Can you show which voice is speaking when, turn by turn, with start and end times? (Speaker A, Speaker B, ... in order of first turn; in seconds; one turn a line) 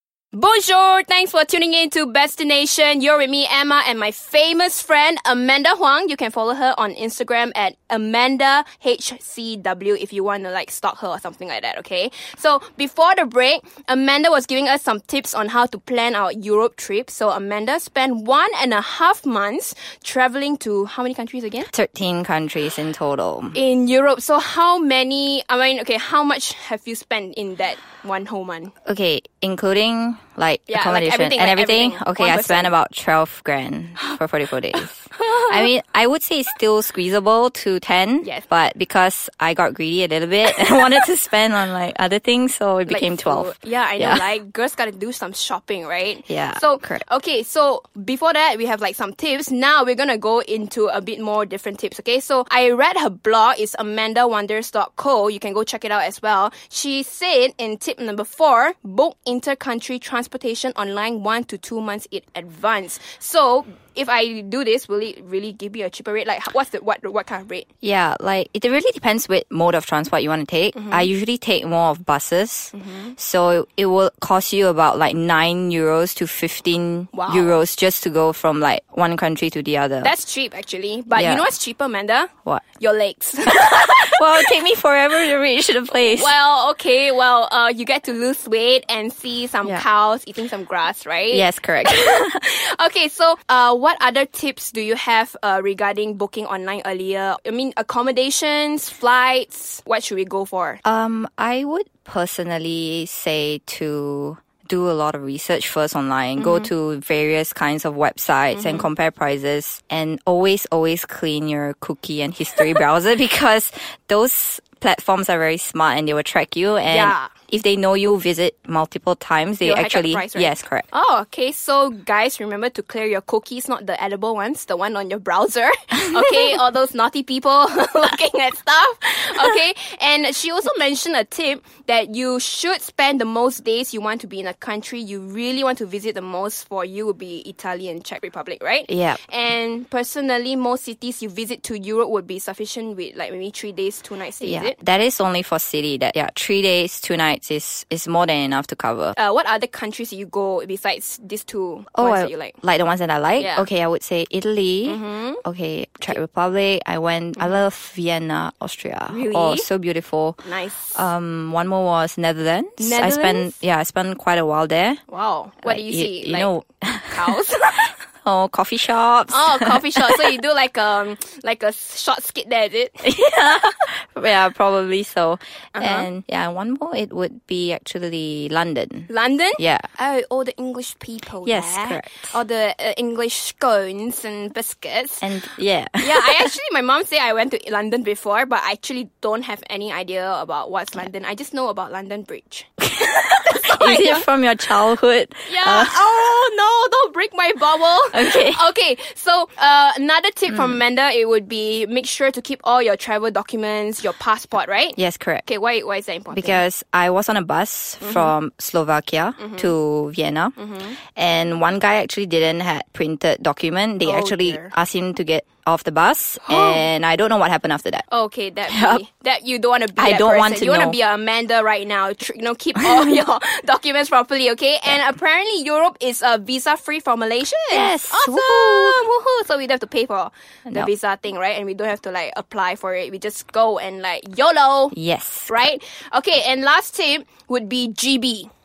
Speaker A: 0.3-21.7
Speaker B: 21.7-23.6
Speaker A: 23.5-28.7
Speaker B: 28.9-44.2
Speaker A: 30.7-32.7
Speaker A: 35.1-35.7
Speaker A: 38.2-38.5
Speaker A: 42.9-67.7
Speaker B: 46.3-47.0
Speaker B: 67.8-80.2
Speaker A: 70.8-71.1
Speaker A: 72.7-73.2
Speaker A: 77.1-77.6
Speaker A: 80.0-84.3
Speaker B: 81.1-81.5
Speaker B: 83.5-86.3
Speaker A: 86.0-100.8
Speaker B: 91.3-92.3
Speaker B: 100.8-120.9
Speaker A: 106.4-106.7
Speaker A: 108.5-108.9
Speaker A: 116.9-117.3
Speaker A: 119.6-144.8
Speaker B: 138.9-139.2
Speaker B: 144.4-149.2
Speaker A: 149.2-152.6
Speaker B: 151.9-160.4
Speaker A: 153.4-153.7
Speaker A: 154.9-155.4
Speaker A: 159.1-159.7
Speaker A: 160.4-161.1
Speaker B: 160.9-165.0
Speaker A: 162.8-163.5
Speaker A: 165.1-166.6
Speaker B: 165.6-167.4
Speaker A: 167.1-167.9
Speaker B: 168.2-170.4
Speaker A: 169.3-173.1
Speaker B: 173.0-179.9
Speaker A: 175.8-176.1
Speaker A: 179.1-185.3
Speaker B: 181.4-182.4
Speaker B: 185.2-186.5
Speaker A: 186.0-194.3
Speaker B: 192.9-196.1
Speaker A: 195.5-206.6
Speaker B: 198.1-198.6
Speaker B: 205.0-205.5
Speaker B: 206.3-210.6
Speaker A: 208.0-208.3
Speaker A: 209.4-209.7
Speaker A: 210.6-211.0
Speaker B: 211.2-218.1
Speaker A: 214.0-214.7
Speaker A: 216.4-216.9
Speaker A: 218.1-235.0
Speaker B: 218.7-219.0
Speaker B: 220.0-221.0
Speaker B: 222.8-223.1
Speaker B: 227.7-229.0
Speaker B: 234.9-235.6
Speaker A: 235.5-238.5